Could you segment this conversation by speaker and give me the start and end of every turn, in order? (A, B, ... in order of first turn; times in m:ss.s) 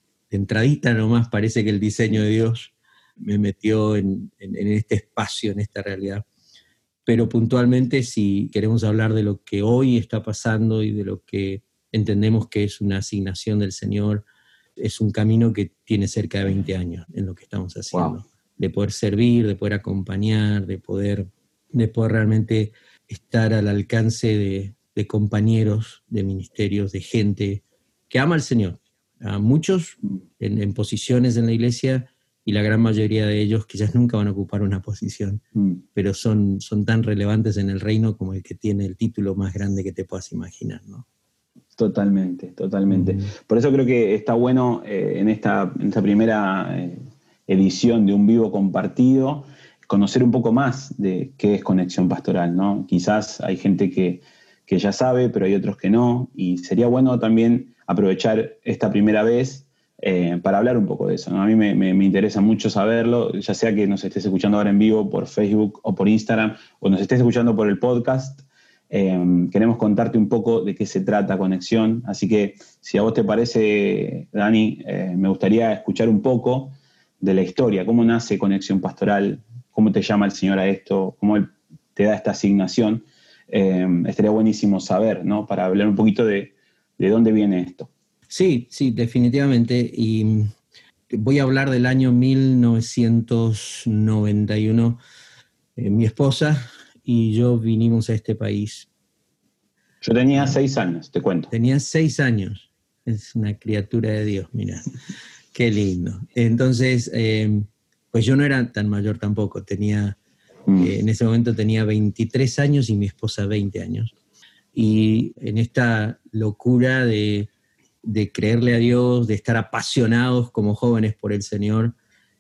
0:00.3-0:06.2 A
0:07.1-0:14.2 A
0:14.8-0:35.4 A
0:35.6-0:35.8 B
0:35.9-0:41.0 A
0:41.8-1:27.9 B
0:42.9-0:43.2 A
1:28.3-1:30.5 A
1:31.1-1:35.0 A
1:35.8-1:38.9 A
1:40.0-1:41.5 B
1:41.5-1:44.9 A
1:45.5-1:50.2 A
1:50.7-1:50.9 B
1:50.8-1:54.1 A
1:54.7-1:57.5 A
1:58.0-2:02.0 A